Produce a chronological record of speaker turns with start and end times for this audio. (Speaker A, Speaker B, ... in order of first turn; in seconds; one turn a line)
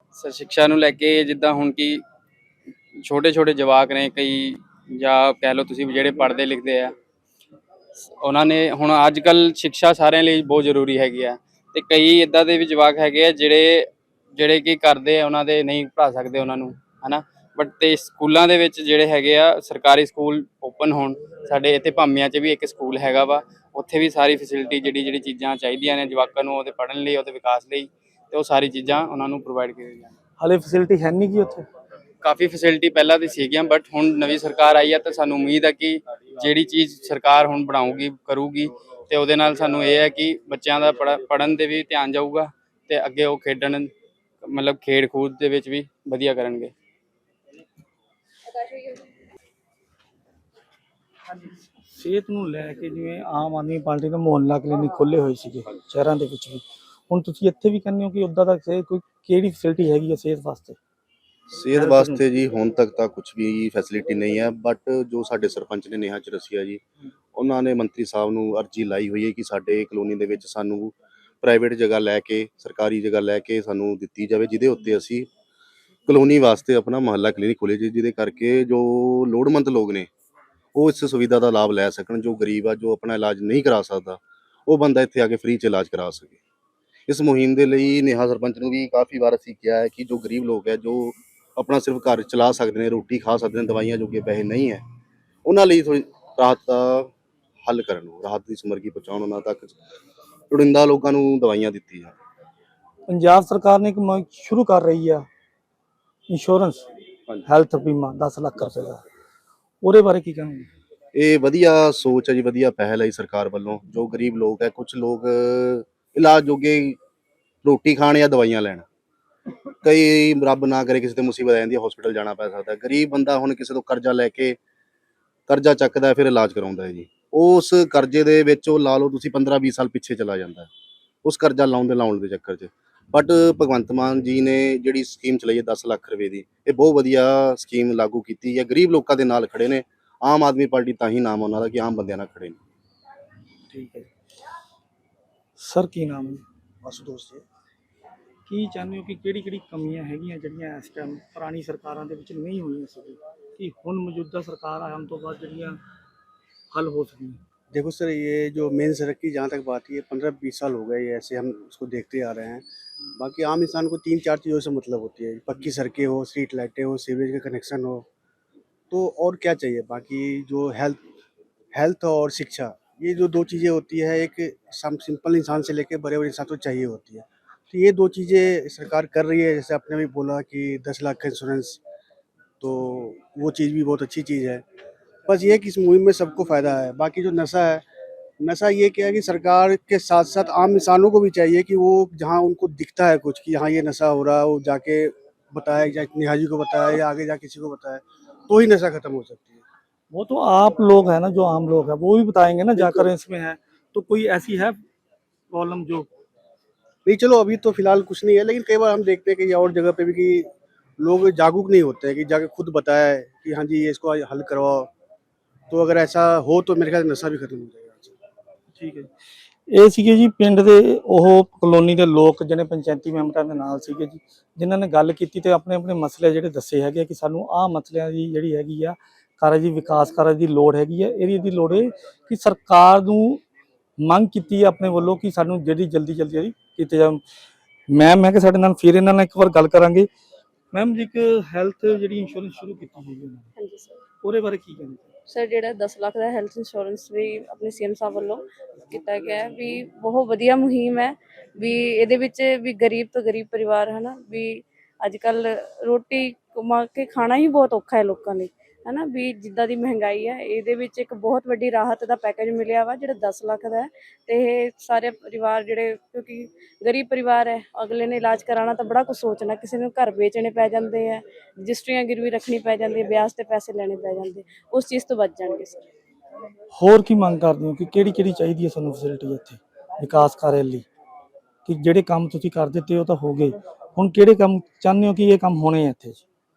Speaker A: 0.1-2.0
Speaker A: 3.0-6.9
Speaker A: 8.2-30.1
Speaker B: 30.4-31.7
Speaker A: 32.2-43.9
Speaker A: 44.4-46.7
Speaker C: 48.6-49.0
Speaker B: 51.9-60.8
Speaker D: 61.5-66.8
Speaker B: 61.7-62.2
Speaker D: 67.3-75.3
Speaker D: 76.1-80.1
Speaker D: 80.8-86.4
Speaker D: 87.1-94.8
Speaker D: 95.5-97.1
Speaker D: 97.7-99.8
Speaker D: 100.5-102.2
Speaker B: 103.1-105.3
Speaker B: 106.3-106.8
Speaker B: 107.4-109.0
Speaker B: 109.8-110.7
Speaker D: 111.2-117.0
Speaker D: 117.6-118.8
Speaker D: 119.8-124.6
Speaker D: 125.5-130.7
Speaker D: 131.2-142.6
Speaker B: 143.7-144.1
Speaker B: 145.6-146.4
Speaker E: 146.8-147.4
Speaker B: 148.5-155.8
Speaker B: 156.7-157.4
Speaker E: 157.7-162.6
Speaker E: 163.2-168.1
Speaker E: 168.9-171.0
Speaker E: 171.7-181.8
Speaker E: 182.6-184.6
Speaker E: 185.3-187.8
Speaker E: 188.4-199.6
Speaker B: 200.1-204.8
Speaker E: 202.8-203.1
Speaker B: 205.5-206.1
Speaker E: 207.1-210.5
Speaker E: 211.0-214.9
Speaker E: 215.7-218.2
Speaker B: 218.8-219.1
Speaker B: 219.7-233.4
Speaker B: 234.0-237.2
Speaker B: 237.9-240.1
Speaker B: 240.7-243.5
Speaker C: 243.6-244.1
Speaker B: 244.2-245.1
Speaker C: 245.3-275.9
Speaker B: 276.7-280.9
Speaker B: 281.6-286.2